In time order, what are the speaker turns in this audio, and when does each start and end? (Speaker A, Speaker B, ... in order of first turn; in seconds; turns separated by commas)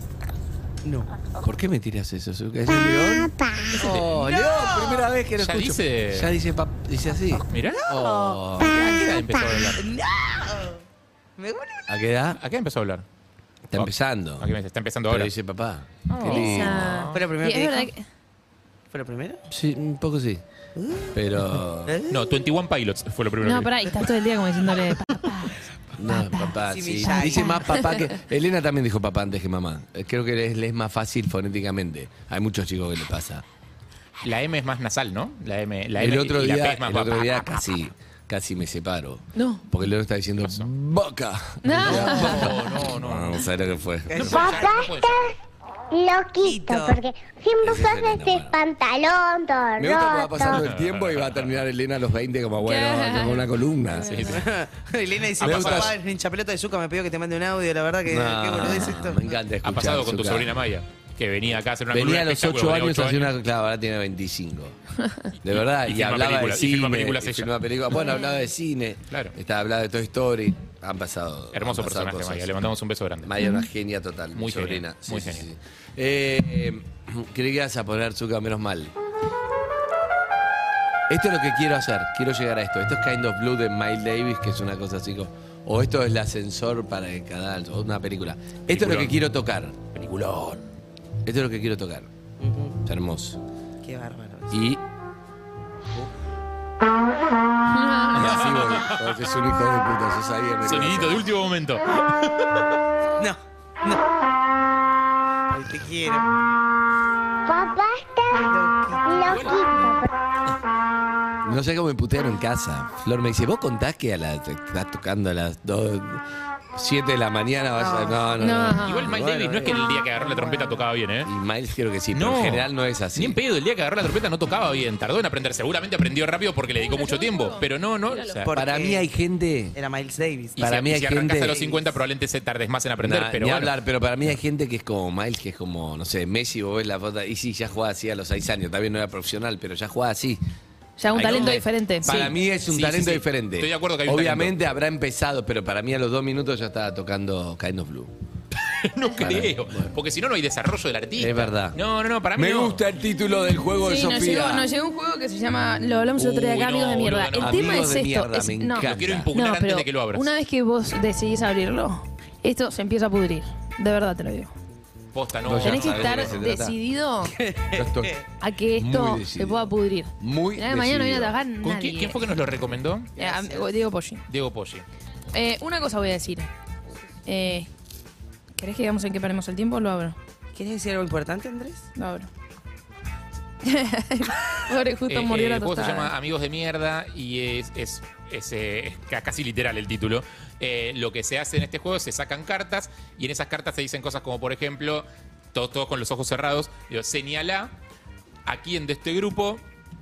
Speaker A: 0.8-1.1, Speaker B: 1.4-8.8, Speaker C: 3.0-3.7, Speaker A: 3.8-5.1, Speaker D: 5.4-6.3, Speaker D: 7.5-7.9, Speaker A: 7.9-8.4, Speaker D: 8.6-9.8, Speaker A: 9.8-10.8, Speaker A: 11.4-11.9, Speaker B: 11.9-12.4, Speaker D: 12.4-13.0, Speaker B: 13.7-14.5, Speaker D: 13.7-15.3, Speaker B: 15.1-17.0, Speaker D: 16.1-17.3, Speaker E: 16.1-18.0, Speaker A: 17.1-17.9, Speaker A: 18.9-19.4, Speaker B: 19.5-20.4, Speaker A: 20.8-21.2, Speaker B: 21.1-21.9, Speaker A: 21.9-22.4, Speaker D: 22.1-23.7, Speaker E: 23.4-25.6, Speaker B: 26.0-33.4, Speaker E: 26.2-26.4, Speaker A: 26.6-27.8, Speaker E: 27.1-28.0, Speaker D: 34.2-37.8, Speaker B: 36.0-44.5, Speaker E: 39.3-39.6, Speaker D: 40.4-40.7, Speaker E: 41.6-42.5, Speaker D: 41.7-43.5, Speaker A: 44.1-44.8, Speaker D: 44.1-45.2, Speaker C: 44.2-45.3, Speaker C: 45.9-50.6, Speaker A: 46.4-47.0, Speaker B: 47.6-48.6, Speaker B: 49.8-54.2, Speaker D: 50.4-51.6, Speaker E: 52.6-54.4, Speaker D: 54.0-54.5, Speaker A: 54.3-59.3, Speaker D: 55.4-55.9, Speaker B: 55.4-56.0, Speaker B: 58.0-60.5, Speaker D: 59.6-63.3, Speaker B: 61.9-64.8, Speaker B: 65.4-72.6, Speaker D: 65.5-67.5, Speaker E: 67.9-68.4, Speaker D: 71.5-73.4, Speaker B: 73.2-78.9, Speaker D: 74.3-75.5, Speaker B: 81.1-89.8, Speaker D: 88.7-89.2, Speaker D: 89.9-90.7, Speaker B: 91.2-92.1, Speaker A: 92.4-92.8, Speaker B: 92.8-93.4, Speaker A: 93.8-94.6, Speaker B: 94.5-94.8, Speaker E: 97.7-98.3, Speaker B: 98.1-101.3, Speaker D: 98.2-99.1, Speaker D: 100.6-102.7, Speaker A: 103.2-104.0, Speaker A: 105.5-106.3, Speaker C: 107.5-110.1, Speaker A: 108.5-109.3, Speaker D: 109.2-109.7, Speaker B: 111.4-116.2, Speaker B: 116.7-119.7, Speaker A: 117.7-118.3, Speaker E: 118.4-119.1, Speaker D: 118.8-121.3, Speaker A: 119.2-120.8, Speaker B: 121.2-123.4, Speaker D: 122.1-128.5, Speaker E: 126.8-128.4, Speaker A: 128.4-129.1, Speaker B: 128.5-129.8, Speaker A: 129.7-130.6, Speaker B: 130.6-131.6, Speaker D: 130.6-133.7, Speaker B: 133.0-140.4, Speaker E: 141.0-142.3, Speaker B: 141.1-148.1, Speaker D: 141.3-144.5, Speaker D: 148.6-152.8, Speaker B: 149.1-149.9, Speaker B: 151.2-151.8, Speaker B: 152.3-154.7, Speaker E: 153.7-164.5, Speaker D: 156.2-157.9, Speaker B: 157.4-159.3, Speaker D: 158.8-160.3, Speaker D: 165.1-166.4, Speaker B: 165.4-166.8, Speaker E: 165.6-167.3, Speaker A: 167.3-168.2, Speaker B: 167.7-168.2, Speaker E: 168.4-172.2, Speaker B: 168.7-171.3, Speaker D: 171.6-173.1, Speaker A: 173.2-173.7, Speaker E: 173.2-174.2, Speaker D: 174.3-174.8, Speaker E: 175.3-176.5, Speaker E: 177.2-177.7, Speaker E: 178.6-180.2, Speaker A: 180.5-181.8, Speaker E: 181.9-182.3, Speaker E: 183.6-186.1, Speaker D: 185.1-197.7, Speaker D: 198.4-199.6